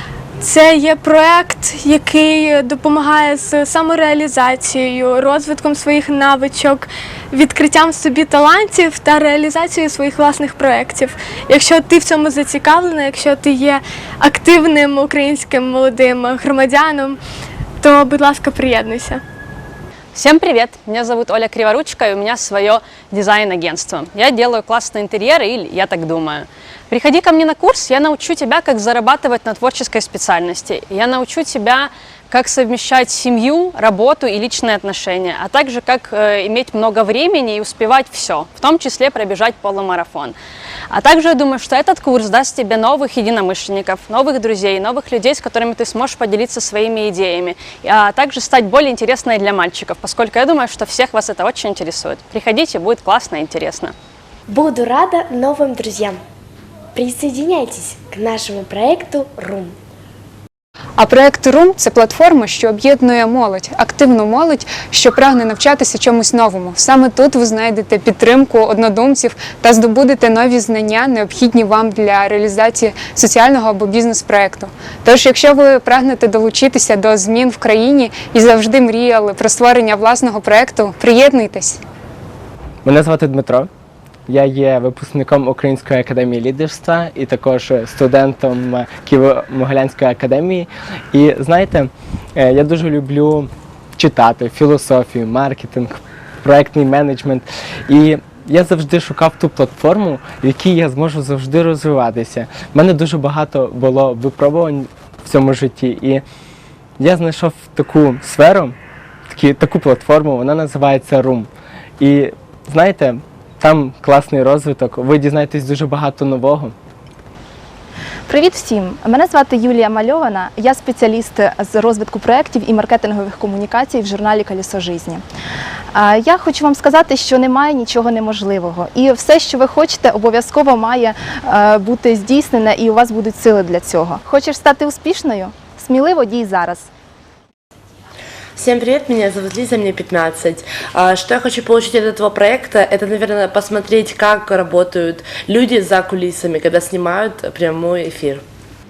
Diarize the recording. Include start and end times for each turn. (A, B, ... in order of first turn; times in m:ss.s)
0:00.4-0:17.2 A
0:17.8-0:19.2 A
0:20.2-0:40.3 B
0:40.9-0:53.9 B
0:54.5-0:56.2 C
0:56.9-0:59.7 C
1:01.0-1:21.8 D
1:22.8-1:23.7 E
1:24.3-1:46.2 E
1:47.0-1:48.7 E
1:49.3-1:51.5 E
1:52.0-1:56.7 E
1:58.3-2:05.2 F
2:05.9-2:16.9 F
2:18.6-2:28.4 G